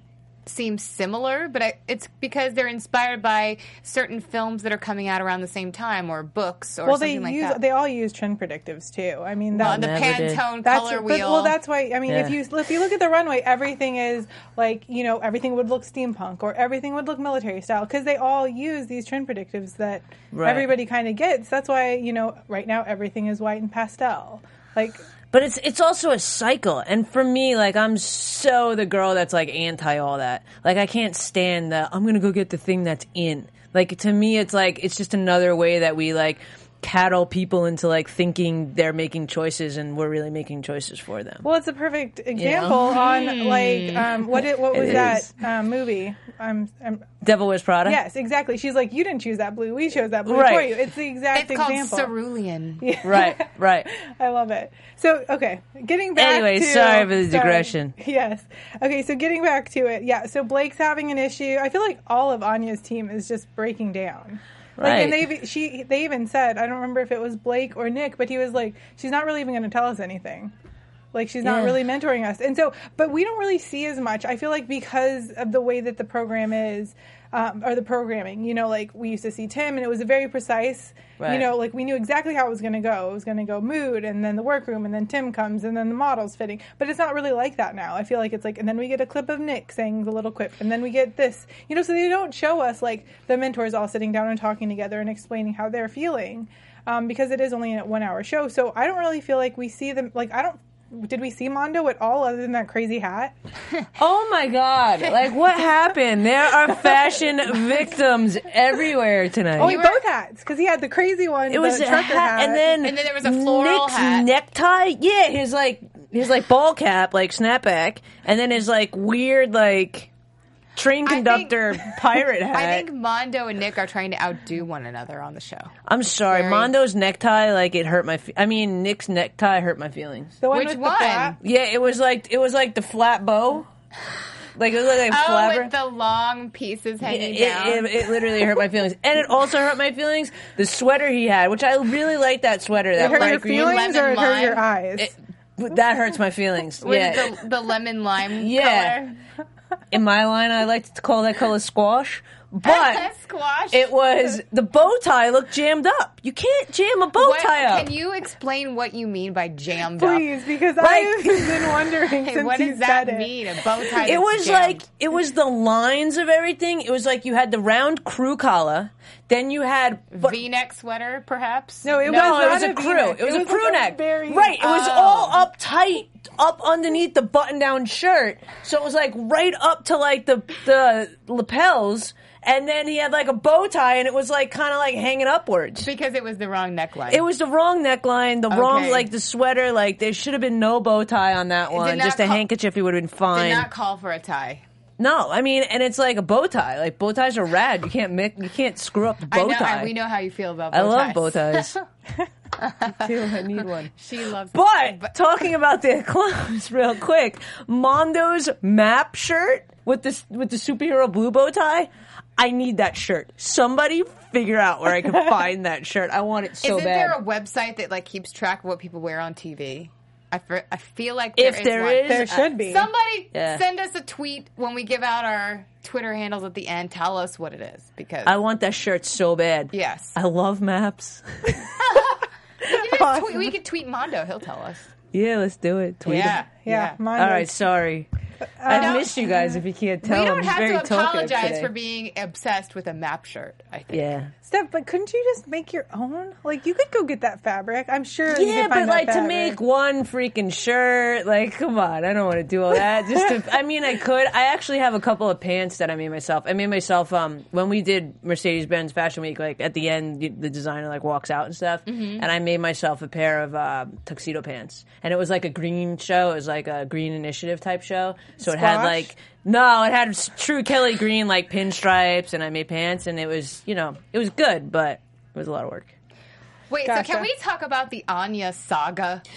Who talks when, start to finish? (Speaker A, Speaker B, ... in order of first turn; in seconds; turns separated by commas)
Speaker A: 0.5-7.6, Speaker B: 6.8-9.9, Speaker C: 9.6-10.4, Speaker A: 9.6-11.6, Speaker B: 10.6-25.0, Speaker C: 12.1-12.3, Speaker C: 20.3-20.7, Speaker C: 25.3-41.5, Speaker B: 41.4-47.1, Speaker C: 42.4-42.8, Speaker A: 42.9-44.2, Speaker C: 44.7-45.2, Speaker C: 47.2-48.0, Speaker B: 47.9-52.1, Speaker C: 50.3-50.7, Speaker A: 51.3-52.9, Speaker B: 52.8-70.5, Speaker C: 53.0-53.9, Speaker C: 56.2-57.9, Speaker C: 64.8-65.2, Speaker B: 71.1-103.3, Speaker C: 71.4-71.8, Speaker C: 81.2-81.5, Speaker C: 104.0-109.8, Speaker B: 109.6-112.7, Speaker A: 109.6-110.0, Speaker C: 111.5-120.1, Speaker A: 112.8-114.3, Speaker C: 120.8-122.9, Speaker A: 121.0-122.0, Speaker A: 122.5-125.7, Speaker C: 125.9-130.4, Speaker A: 126.3-126.7, Speaker B: 130.4-131.4, Speaker A: 130.5-131.4, Speaker C: 131.4-133.7, Speaker C: 134.6-135.7, Speaker A: 135.1-138.0, Speaker C: 137.0-143.9, Speaker A: 143.0-144.6, Speaker B: 143.0-145.1, Speaker C: 145.0-147.4, Speaker A: 146.8-149.2, Speaker C: 148.4-149.0, Speaker C: 149.9-153.1, Speaker A: 152.6-153.9, Speaker C: 153.7-157.9, Speaker A: 157.2-160.3, Speaker B: 160.0-163.4, Speaker C: 160.8-161.7, Speaker A: 162.2-164.8, Speaker C: 164.0-170.4, Speaker A: 170.1-172.6, Speaker B: 171.8-174.6, Speaker C: 172.1-185.9, Speaker A: 174.6-175.4, Speaker A: 185.8-187.2, Speaker C: 187.1-193.7, Speaker A: 188.5-189.1, Speaker A: 191.7-192.4, Speaker A: 193.3-194.6, Speaker C: 195.0-199.9, Speaker A: 199.3-201.8, Speaker C: 200.7-201.7, Speaker A: 202.6-205.1, Speaker C: 202.9-203.9, Speaker C: 204.5-217.2, Speaker B: 215.0-215.3, Speaker A: 216.6-228.3, Speaker C: 221.4-222.5, Speaker B: 222.1-222.9, Speaker C: 223.3-223.6, Speaker C: 228.3-231.7, Speaker A: 229.7-230.2, Speaker A: 231.8-234.9, Speaker B: 232.9-233.5, Speaker C: 235.1-236.4, Speaker A: 236.1-237.0, Speaker B: 236.1-237.6, Speaker C: 237.2-238.1, Speaker B: 238.4-239.6, Speaker C: 238.7-241.7, Speaker A: 238.7-239.3, Speaker A: 240.0-244.1, Speaker C: 243.9-244.3, Speaker B: 244.4-249.6, Speaker C: 248.3-275.9, Speaker B: 252.9-253.3, Speaker A: 261.9-262.2, Speaker B: 268.4-269.1, Speaker A: 276.7-279.2, Speaker B: 276.9-277.3